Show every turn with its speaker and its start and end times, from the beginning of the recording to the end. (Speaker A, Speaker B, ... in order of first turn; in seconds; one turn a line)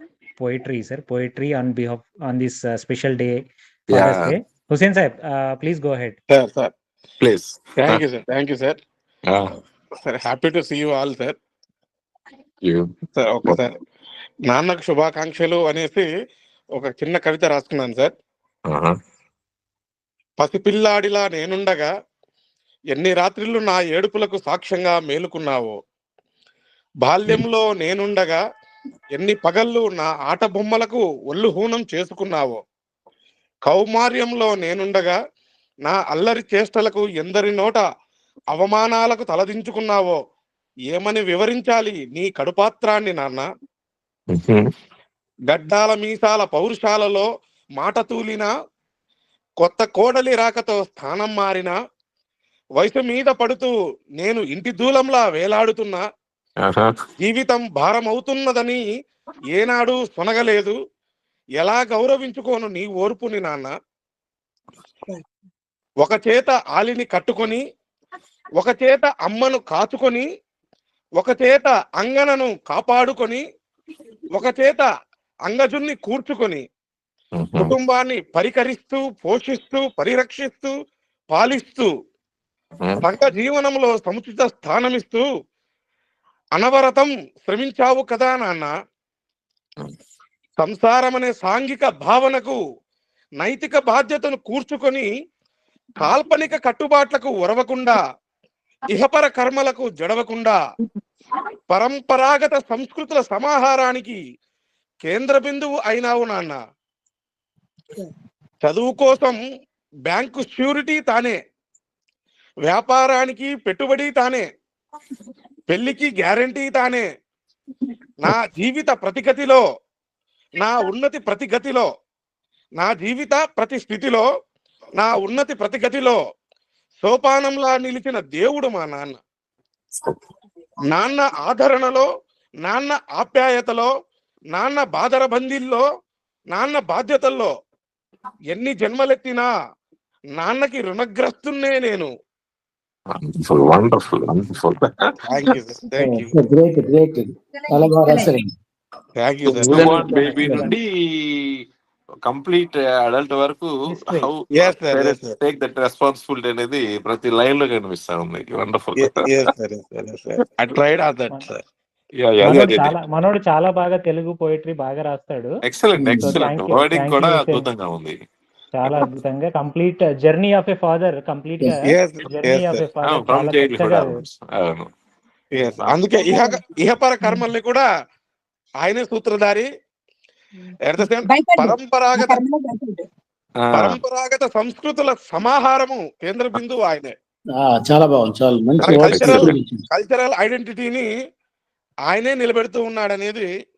Speaker A: 0.4-6.2
Speaker B: 3.9-4.3
Speaker C: 6.3-6.7
Speaker B: 7.2-8.0
Speaker C: 7.8-8.8
Speaker B: 9.3-9.5
Speaker C: 10.0-11.3
Speaker C: 13.2-13.8
Speaker C: 14.5-16.1
Speaker C: 16.7-18.1
Speaker B: 18.7-18.9
Speaker C: 20.4-21.9
Speaker C: 22.9-25.7
Speaker C: 27.0-28.4
Speaker C: 29.1-32.6
Speaker C: 33.6-35.1
Speaker C: 35.9-37.8
Speaker C: 38.5-40.2
Speaker C: 40.9-43.4
Speaker B: 44.3-44.6
Speaker C: 45.5-47.3
Speaker C: 47.8-48.5
Speaker C: 49.6-51.7
Speaker C: 52.8-56.0
Speaker B: 56.6-56.9
Speaker C: 57.2-58.8
Speaker C: 59.5-60.7
Speaker C: 61.6-63.7
Speaker C: 66.0-67.6
Speaker C: 68.6-70.2
Speaker C: 71.2-73.4
Speaker C: 74.3-74.8
Speaker C: 75.5-76.6
Speaker B: 77.3-77.7
Speaker C: 77.6-80.7
Speaker C: 81.3-81.9
Speaker C: 83.0-85.2
Speaker C: 86.5-88.7
Speaker C: 90.6-92.6
Speaker C: 93.4-95.1
Speaker C: 96.0-98.0
Speaker C: 98.9-100.6
Speaker C: 101.7-104.2
Speaker C: 105.0-106.6
Speaker C: 108.6-109.4
Speaker C: 110.0-111.4
Speaker C: 112.6-114.4
Speaker C: 115.7-117.0
Speaker C: 118.2-119.6
Speaker C: 120.6-121.9
Speaker C: 122.8-124.2
Speaker C: 125.0-126.2
Speaker C: 127.0-129.2
Speaker C: 130.9-132.0
Speaker C: 132.6-133.9
Speaker C: 134.5-135.8
Speaker C: 136.5-137.5
Speaker C: 138.5-139.5
Speaker C: 140.4-142.1
Speaker B: 143.1-144.9
Speaker C: 145.2-146.3
Speaker D: 146.0-148.5
Speaker E: 147.7-148.3
Speaker C: 149.2-149.9
Speaker B: 149.4-151.4
Speaker A: 149.7-150.7
Speaker D: 149.9-150.7
Speaker B: 152.2-159.1
Speaker A: 153.9-154.3
Speaker C: 154.6-155.3
Speaker C: 159.0-161.6
Speaker B: 162.2-162.9
Speaker A: 162.4-165.6
Speaker B: 165.7-168.2
Speaker D: 166.0-166.4
Speaker A: 166.2-167.7
Speaker A: 168.7-174.1
Speaker C: 171.9-172.8
Speaker B: 173.1-174.9
Speaker C: 175.5-177.8
Speaker B: 175.6-176.0
Speaker E: 176.3-176.6
Speaker C: 178.8-179.7
Speaker C: 180.8-182.4
Speaker E: 181.2-183.0
Speaker B: 183.6-184.0
Speaker C: 183.7-187.1
Speaker D: 187.6-189.8
Speaker C: 188.8-191.0
Speaker B: 188.9-189.6
Speaker C: 192.1-193.4